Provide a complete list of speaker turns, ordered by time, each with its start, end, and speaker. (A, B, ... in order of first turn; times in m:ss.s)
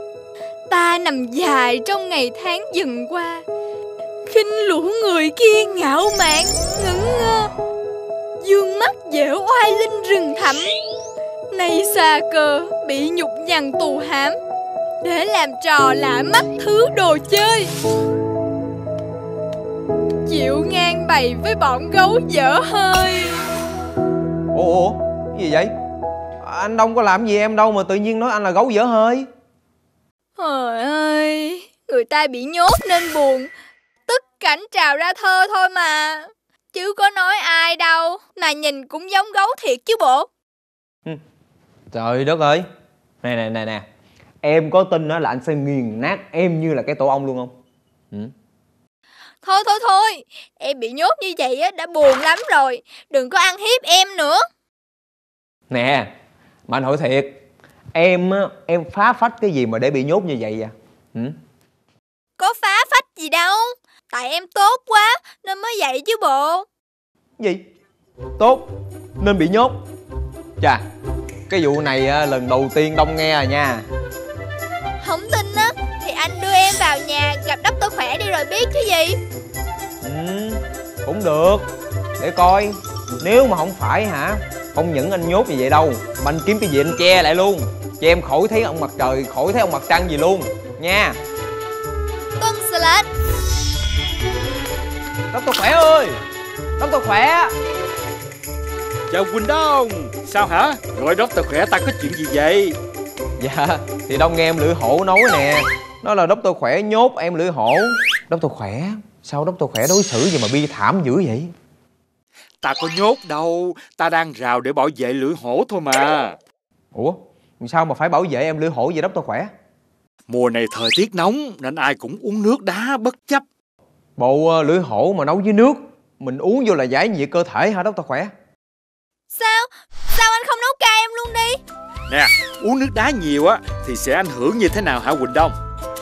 0:00.7-0:03.4 A
0:04.2-0:07.5 A
0:08.4-0:10.7 A
0:11.5-0:14.4 A
0:15.0-0:17.7 A
0:20.2-0:23.5 A
0:24.5-0:25.7 B
0:26.4-0:29.3 B
0:30.4-0:33.5 A
0:34.1-0:40.3 A
0:41.9-0:42.6 B
0:43.2-0:43.8 B
0:44.4-0:47.5 B
0:49.4-0:54.4 A
0:55.7-0:56.1 B
0:56.7-0:57.3 B
0:57.9-1:01.4 B
1:02.4-1:06.7 A
1:08.4-1:08.7 B
1:09.2-1:09.8 B
1:11.5-1:13.8 B
1:15.0-1:19.2 A
1:20.0-1:21.7 B
1:22.2-1:31.2 B
1:32.4-1:33.1 A
1:35.3-1:36.2 B
1:36.8-1:37.5 B
1:39.1-1:42.8 C
1:43.4-1:51.5 B
1:52.6-1:56.4 C
1:56.9-1:59.5 B
2:00.3-2:03.4 C
2:04.2-2:08.3 B
2:09.3-2:11.6 A
2:12.1-2:15.6 C